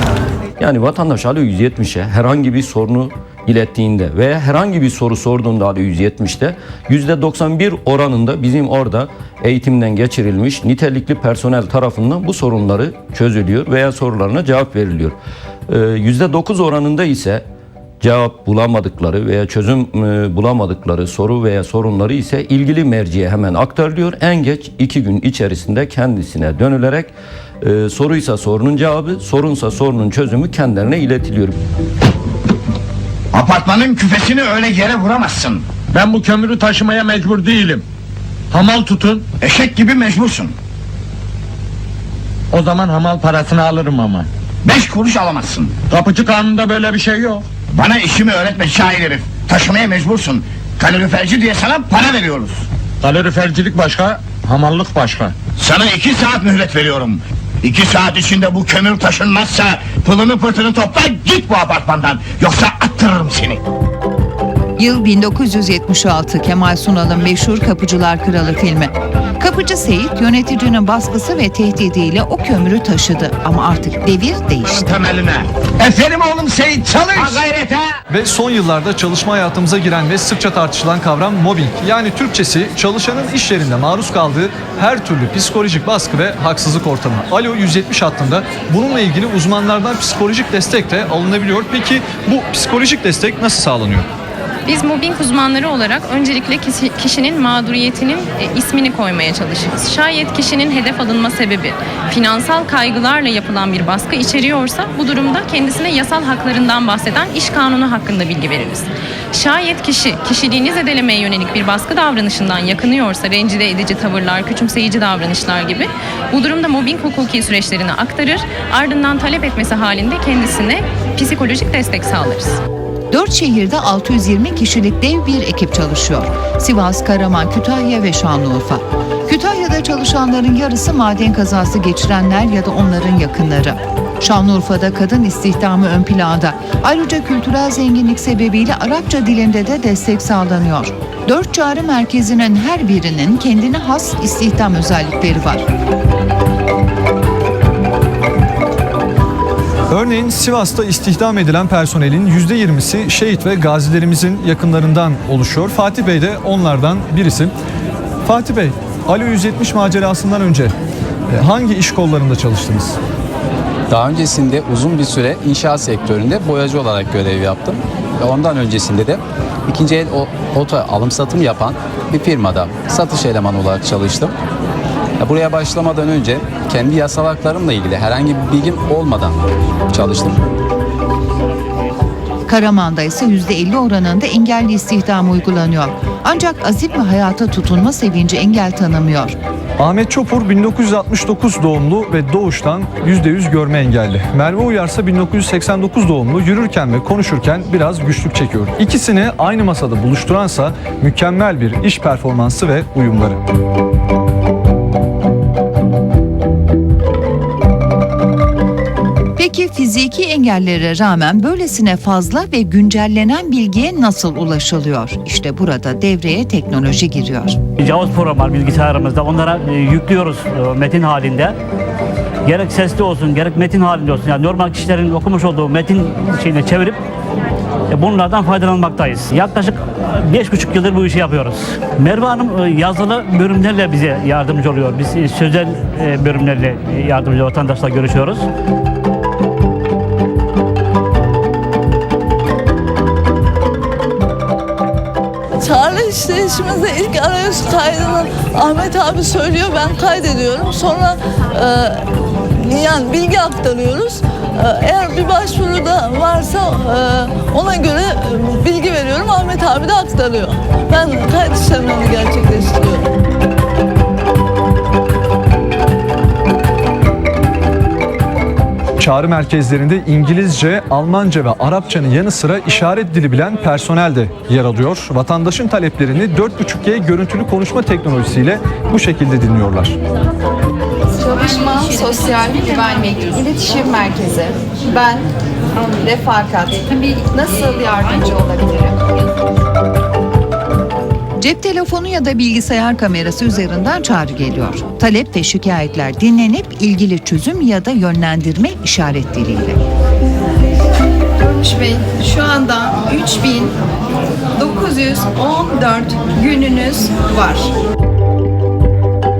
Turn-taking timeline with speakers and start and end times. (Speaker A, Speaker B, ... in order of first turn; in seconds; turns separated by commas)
Speaker A: 0.6-15.2, Speaker A: 15.7-17.4, Speaker A: 18.0-31.6, Speaker B: 33.3-35.7, Speaker C: 35.9-37.8, Speaker C: 38.5-39.2, Speaker B: 39.4-40.5, Speaker C: 42.5-44.3, Speaker B: 44.6-45.8, Speaker C: 45.9-47.5, Speaker B: 47.7-52.6, Speaker C: 53.0-55.4, Speaker B: 55.5-63.6, Speaker D: 64.8-74.8, Speaker B: 74.6-77.8, Speaker E: 78.1-94.1, Speaker F: 94.7-122.6, Speaker D: 123.1-145.7, Speaker E: 149.9-157.5, Speaker E: 158.2-160.7, Speaker E: 161.3-163.0, Speaker G: 163.9-174.3, Speaker G: 175.2-179.4, Speaker G: 179.9-180.4, Speaker D: 182.5-189.3, Speaker E: 189.8-203.4, Speaker D: 209.4-217.6, Speaker H: 217.8-221.6, Speaker H: 222.4-227.0, Speaker H: 227.9-238.4, Speaker I: 245.6-252.0, Speaker I: 252.6-263.0, Speaker E: 269.0-279.9, Speaker J: 281.2-285.2, Speaker J: 285.9-288.9, Speaker D: 291.4-299.8, Speaker J: 301.4-303.7, Speaker J: 304.6-307.7